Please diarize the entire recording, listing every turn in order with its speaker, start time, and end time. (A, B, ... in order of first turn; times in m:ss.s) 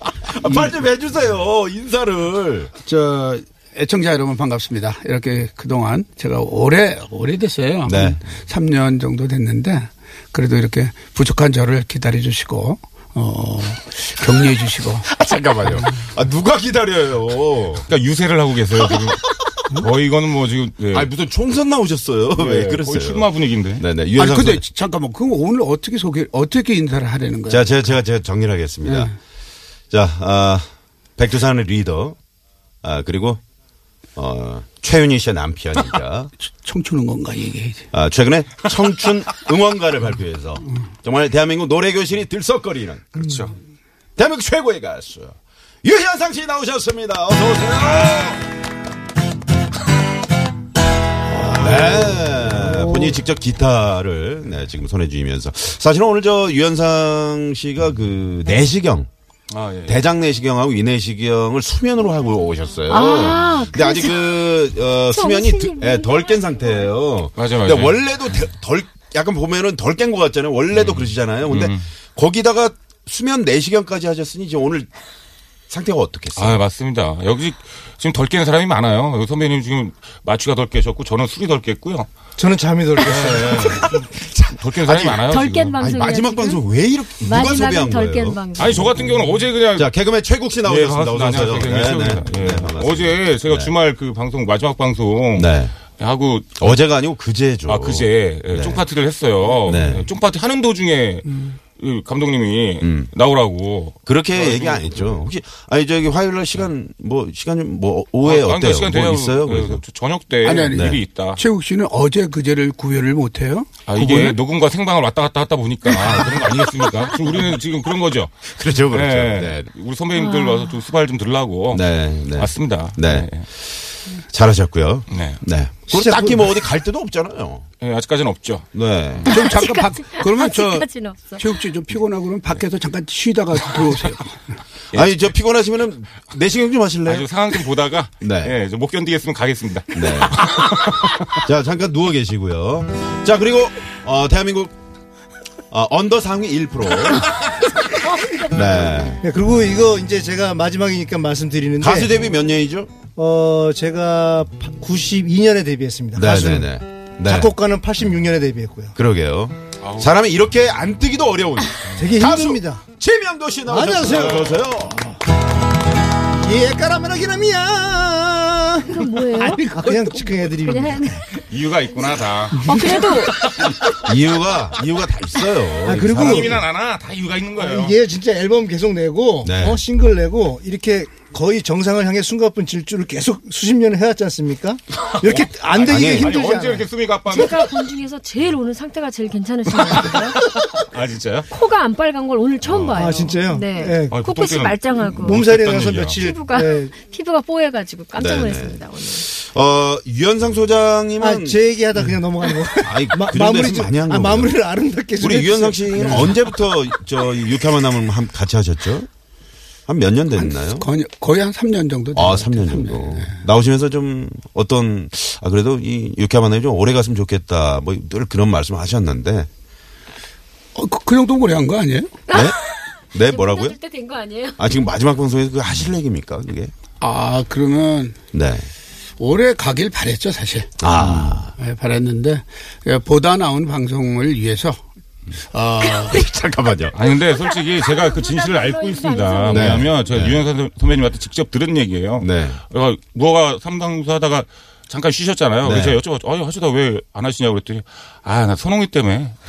0:00.2-0:02.7 A
0:00.4-0:00.8 B
0:02.8-0:15.1 B
0:07.9-0:08.2 A
0:15.1-0:17.9 A
0:15.8-0:16.0 B
0:17.8-0:21.1 C
0:20.9-0:24.6 A
0:22.4-0:23.9 C
0:24.2-0:27.7 B
0:27.5-0:29.1 A
0:28.8-0:29.1 B
0:29.9-0:30.7 A
0:31.2-0:32.2 A
0:32.8-0:33.4 A
0:34.2-0:36.3 A
0:36.4-0:37.8 B
0:37.9-0:43.3 A
0:43.2-0:43.6 C
0:44.2-0:48.4 A
0:51.3-0:59.1 A
0:51.4-0:52.2 C
0:59.5-1:00.0 C
0:59.8-1:14.9 A
1:02.9-1:04.3 D
1:05.1-1:06.5 D
1:07.4-1:08.0 C
1:10.7-1:11.8 C
1:15.7-1:16.6 A
1:16.4-1:22.1 C
1:22.4-1:23.9 E
1:23.0-1:25.8 C
1:24.1-1:25.2 A
1:25.3-1:26.6 D
1:25.8-1:28.4 A
1:27.2-1:29.1 D
1:28.6-1:29.9 C
1:29.7-1:33.7 A
1:30.6-1:36.7 C
1:35.4-1:35.8 A
1:36.6-1:38.8 A
1:37.7-1:45.3 C
1:39.6-1:40.1 A
1:42.8-1:43.1 A
1:44.1-1:49.8 A
1:48.2-1:51.4 C
1:50.4-1:54.4 B
1:50.7-1:51.0 A
1:53.9-2:03.5 C
1:58.5-1:59.7 A
2:00.2-2:00.8 D
2:01.7-2:07.6 A
2:05.1-2:05.4 C
2:05.9-2:06.4 E
2:07.8-2:08.7 C
2:08.7-2:09.3 A
2:09.3-2:11.4 D
2:09.3-2:14.4 B
2:14.9-2:15.2 C
2:14.9-2:17.3 A
2:17.1-2:21.3 C
2:18.2-2:18.6 A
2:19.9-2:20.5 A
2:21.3-2:24.7 A
2:25.7-2:27.7 A
2:28.4-2:29.2 A
2:29.2-2:32.2 E
2:31.8-2:32.9 A
2:33.2-2:36.7 E
2:36.2-2:37.5 A
2:37.2-2:39.0 E
2:39.0-2:45.1 A
2:39.8-2:40.1 C
2:42.0-2:42.8 E
2:43.7-2:44.6 E
2:44.2-2:44.5 C
2:46.4-2:51.2 E
2:48.9-2:49.6 D
2:50.2-2:51.2 D
2:51.4-2:53.8 C
2:52.6-2:53.4 D
2:53.9-2:56.6 A
2:55.8-2:56.6 E
2:55.9-2:58.0 C
2:57.6-3:06.9 E
2:59.4-2:59.8 A
3:05.1-3:07.7 C
3:05.9-3:06.3 A
3:07.3-3:10.4 D
3:10.6-3:11.5 C
3:11.5-3:15.5 D
3:12.6-3:13.1 C
3:13.0-3:14.2 E
3:14.1-3:16.3 C
3:15.0-3:16.9 E
3:16.1-3:19.3 D
3:18.2-3:21.6 A
3:21.2-3:26.3 E
3:22.8-3:24.6 A
3:25.2-3:29.1 A
3:26.0-3:26.4 B
3:29.9-3:30.9 A
3:30.4-3:33.4 B
3:32.2-3:39.5 A
3:40.8-3:42.2 B
3:42.3-3:44.6 D
3:42.3-3:42.6 A
3:43.1-3:43.8 A
3:44.6-3:46.7 A
3:47.0-3:48.2 B
3:48.3-3:48.7 A
3:49.2-3:50.7 B
3:50.8-3:51.5 A
3:51.1-3:51.4 C
3:51.6-3:54.8 B
3:55.5-3:56.2 B
3:55.8-3:57.0 A
3:56.9-4:09.4 C
3:57.1-3:59.9 D
3:59.5-4:00.4 A
4:02.2-4:02.6 A
4:05.6-4:06.0 A